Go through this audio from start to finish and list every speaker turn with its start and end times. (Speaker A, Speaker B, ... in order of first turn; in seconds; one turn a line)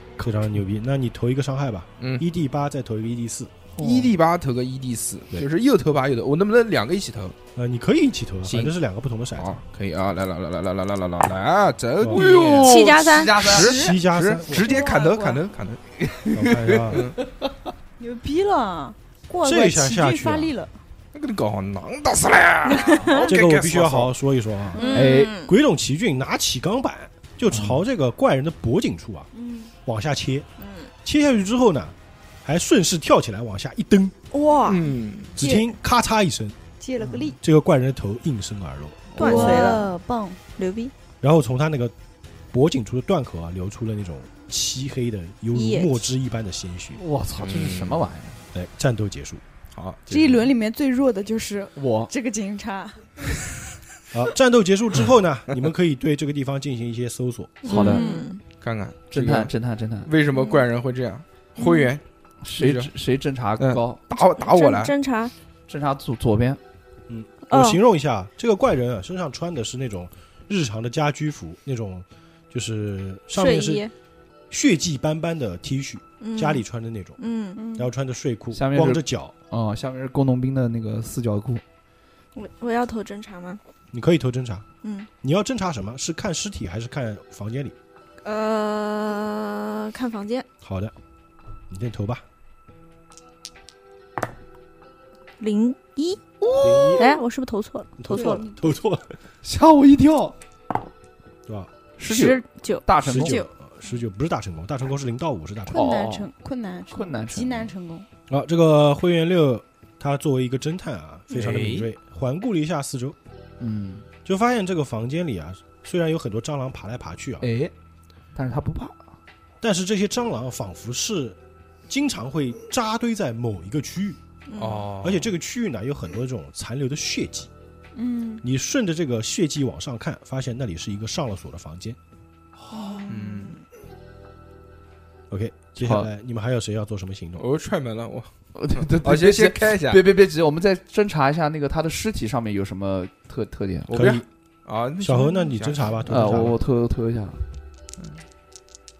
Speaker A: 0.2-3.5
Speaker B: 2.0-2.2
Speaker C: 3.8-4.1
Speaker B: 3.8-7.3
Speaker A: 7.5-9.6
Speaker B: 8.4-8.7
Speaker B: 9.3-15.8
Speaker A: 12.0-12.2
Speaker C: 12.1-13.8
Speaker D: 12.6-13.4
Speaker E: 13.4-15.4
Speaker A: 13.6-14.7
Speaker C: 16.0-17.5
Speaker A: 16.3-17.0
Speaker E: 18.0-20.7
Speaker A: 19.4-20.5
Speaker B: 21.1-24.1
Speaker D: 22.9-23.2
Speaker A: 23.2-29.3
Speaker E: 24.7-25.2
Speaker D: 24.7-25.5
Speaker C: 24.9-25.3
Speaker E: 29.4-29.6
Speaker A: 29.8-30.5
Speaker A: 31.0-34.1
Speaker D: 34.3-34.9
Speaker B: 34.6-35.3
Speaker A: 35.4-36.6
Speaker E: 35.4-35.7
Speaker E: 36.8-37.4
Speaker A: 37.4-39.2
Speaker B: 39.1-39.8
Speaker D: 39.2-39.9
Speaker E: 39.2-40.4
Speaker D: 40.6-40.9
Speaker A: 41.2-41.9
Speaker A: 42.5-47.0
Speaker D: 45.5-46.0
Speaker C: 46.9-48.4
Speaker B: 47.4-48.0
Speaker A: 48.5-49.4
Speaker B: 49.7-50.5
Speaker E: 50.1-53.5
Speaker C: 51.8-52.1
Speaker A: 54.1-57.6
Speaker D: 57.6-58.4
Speaker C: 57.6-58.1
Speaker E: 57.7-58.3
Speaker B: 58.6-59.5
Speaker C: 59.1-60.1
Speaker B: 60.0-62.0
Speaker C: 62.4-64.0
Speaker B: 62.6-62.9
Speaker B: 63.6-64.9
Speaker D: 64.3-65.3
Speaker C: 65.7-66.6
Speaker A: 67.1-73.8
Speaker D: 67.5-67.8
Speaker D: 73.3-73.9
Speaker A: 74.5-77.2
Speaker D: 76.2-76.6
Speaker D: 77.2-77.7
Speaker E: 77.5-77.9
Speaker A: 77.7-79.3
Speaker C: 78.5-81.6
Speaker D: 82.3-83.6
Speaker A: 83.9-84.7
Speaker D: 84.8-85.1
Speaker A: 85.2-87.7
Speaker D: 88.2-90.5
Speaker A: 90.6-90.9
Speaker A: 91.7-92.2
Speaker D: 95.4-96.2
Speaker C: 96.4-97.1
Speaker A: 96.6-97.1
Speaker D: 96.9-98.5
Speaker A: 98.0-99.1
Speaker E: 98.1-98.5
Speaker C: 99.4-100.3
Speaker C: 102.0-103.4
Speaker D: 102.1-102.9
Speaker A: 103.0-105.9
Speaker E: 103.2-103.4
Speaker E: 105.7-108.0
Speaker C: 105.7-106.3
Speaker C: 106.9-107.7
Speaker A: 108.3-113.2
Speaker B: 111.3-111.9
Speaker C: 113.6-114.0
Speaker A: 114.2-117.5
Speaker C: 117.4-117.7
Speaker C: 118.3-119.0
Speaker A: 119.6-121.4
Speaker A: 121.9-124.2
Speaker D: 124.5-124.9
Speaker B: 124.6-125.3
Speaker A: 125.0-127.5
Speaker E: 127.9-128.4
Speaker A: 128.4-132.0
Speaker B: 133.1-133.6
Speaker A: 135.3-137.4
Speaker C: 135.8-136.1
Speaker B: 137.4-140.0
Speaker C: 138.5-143.9
Speaker B: 143.9-146.0
Speaker A: 143.9-144.2
Speaker A: 145.0-146.6
Speaker C: 146.1-147.4